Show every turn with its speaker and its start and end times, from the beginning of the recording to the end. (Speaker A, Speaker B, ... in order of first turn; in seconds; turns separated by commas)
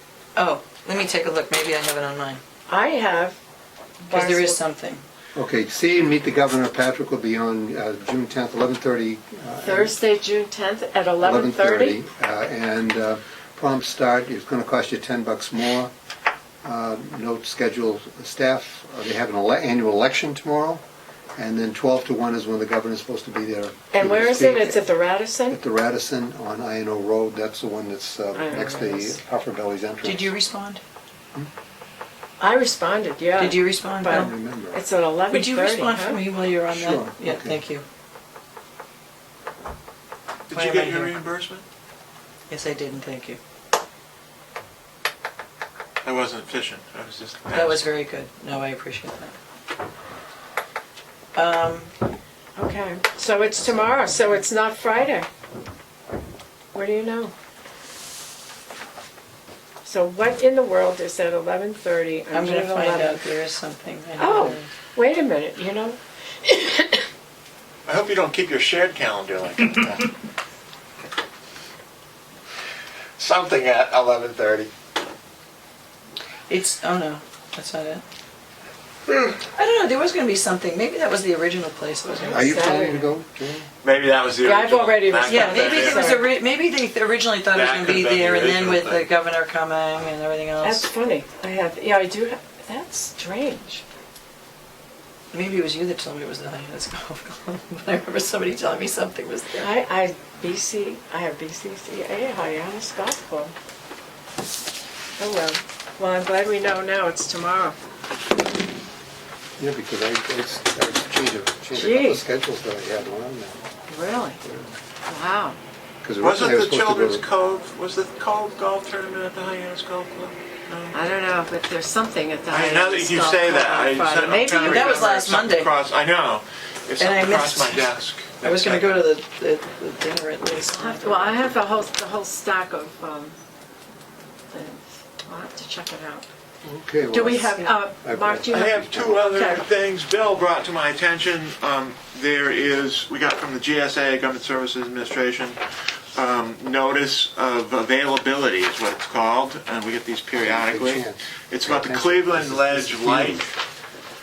Speaker A: 0.3-2.4, Speaker B: 2.7-3.4, Speaker B: 4.0-4.6, Speaker A: 4.1-5.0, Speaker C: 5.3-9.9, Speaker B: 9.6-12.0, Speaker C: 11.2-15.9, Speaker C: 16.6-20.8, Speaker C: 21.4-24.8, Speaker B: 23.9-25.6, Speaker C: 25.5-30.3, Speaker B: 28.3-29.2, Speaker A: 30.0-30.8, Speaker B: 32.4-36.2, Speaker A: 33.4-34.3, Speaker C: 34.0-34.8, Speaker A: 35.3-37.8, Speaker C: 36.7-37.6, Speaker D: 40.5-41.6, Speaker A: 40.5-41.2, Speaker A: 42.5-43.4, Speaker D: 46.0-47.9, Speaker A: 47.5-49.4, Speaker A: 51.3-51.9, Speaker B: 52.6-55.3, Speaker B: 56.7-57.3, Speaker B: 59.8-63.2, Speaker A: 62.3-64.7, Speaker B: 64.2-67.0, Speaker D: 67.9-70.1, Speaker D: 73.2-74.7, Speaker A: 76.5-78.0, Speaker A: 79.4-82.9, Speaker B: 82.1-83.0, Speaker C: 82.3-83.7, Speaker D: 83.8-86.2, Speaker B: 84.4-86.3, Speaker A: 85.2-90.9, Speaker D: 87.5-89.1, Speaker B: 90.6-93.8, Speaker A: 95.3-99.7, Speaker B: 99.5-103.5, Speaker B: 105.2-107.8, Speaker C: 109.6-113.7, Speaker B: 111.7-112.2, Speaker B: 113.9-114.4, Speaker C: 114.4-114.7, Speaker B: 115.1-115.6, Speaker C: 116.0-117.2, Speaker D: 116.2-121.0, Speaker B: 120.9-125.1, Speaker D: 122.5-129.1, Speaker A: 124.6-125.7, Speaker A: 127.0-131.4, Speaker B: 130.7-133.3, Speaker B: 134.5-136.2, Speaker C: 136.6-139.2, Speaker B: 137.1-139.6, Speaker D: 138.5-145.6, Speaker D: 146.1-153.5, Speaker C: 150.4-153.5